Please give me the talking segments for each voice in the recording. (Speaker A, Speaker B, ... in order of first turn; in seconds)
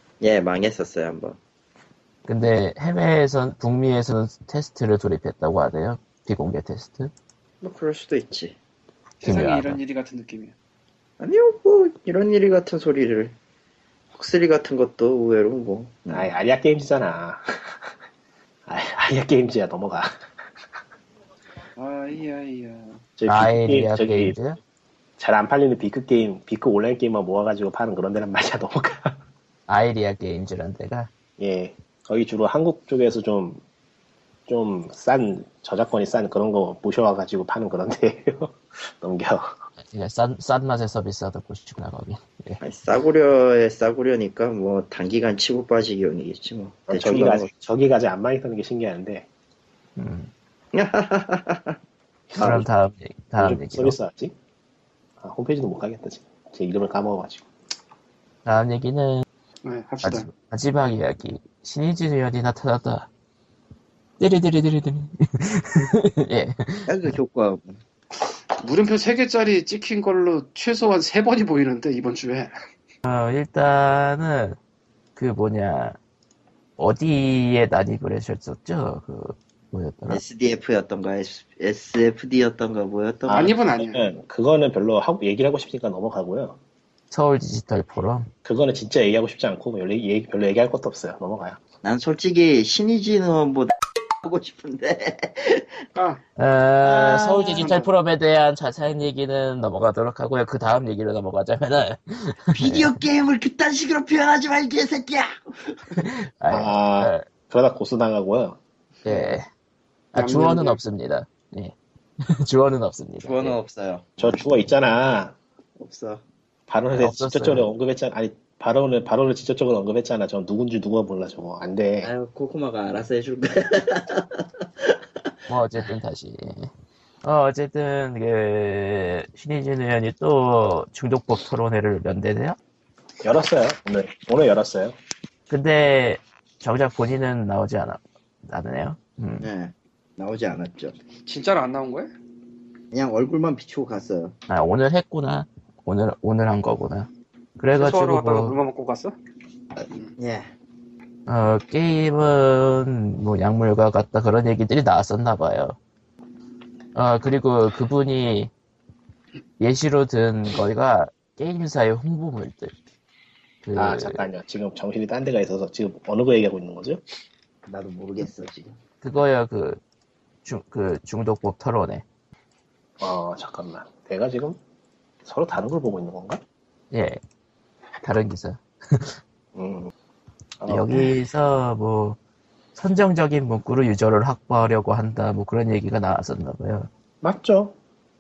Speaker A: 0.2-1.4, 7.6-8.6, 11.2-13.3, 14.1-16.3, 42.6-47.5, 50.7-51.8, 66.8-67.8, 80.1-83.5, 91.8-95.8, 96.8-97.7, 102.5-106.1, 109.0-109.3, 113.2-114.4, 115.8-116.2, 122.0-125.3, 139.4-140.9, 142.9-144.3, 149.8-150.5, 167.7-168.8
Speaker B: 2.3-7.1, 9.2-9.8, 23.3-24.6, 29.7-31.1, 39.9-42.6, 50.0-50.3, 52.4-54.0, 58.4-59.2, 60.0-63.1, 64.2-67.1, 73.0-74.6, 75.2-76.0, 76.8-80.2, 87.1-88.3, 96.4-103.0, 106.0-107.2, 109.0-109.5, 110.1-113.5, 117.0-117.7, 125.5-126.7, 127.2-132.6, 135.5-139.5, 144.5-148.6, 151.3-155.8, 156.9-158.5, 159.6-162.7, 163.6-164.2, 169.0-169.8, 170.4-172.0, 176.9-177.2, 178.0-179.2, 180.7-182.2, 182.8-186.9
Speaker C: 9.2-10.5, 21.8-23.0, 59.6-60.3, 68.6-72.5, 83.3-84.0, 95.9-96.2, 97.5-97.9, 110.1-110.8, 141.2-142.1, 147.7-149.1
Speaker D: 16.1-17.4, 18.7-20.1, 23.2-24.3, 25.2-29.1, 31.4-33.6, 34.5-39.5, 46.9-49.3, 52.3-52.6, 53.4-54.3, 55.2-57.5, 83.3-86.6, 88.4-91.6, 106.5-108.6, 114.2-115.3, 116.7-122.1, 133.2-135.0, 163.8-167.0, 173.0-174.6, 175.2-176.4, 179.6-179.9, 180.6-181.1, 187.2-187.7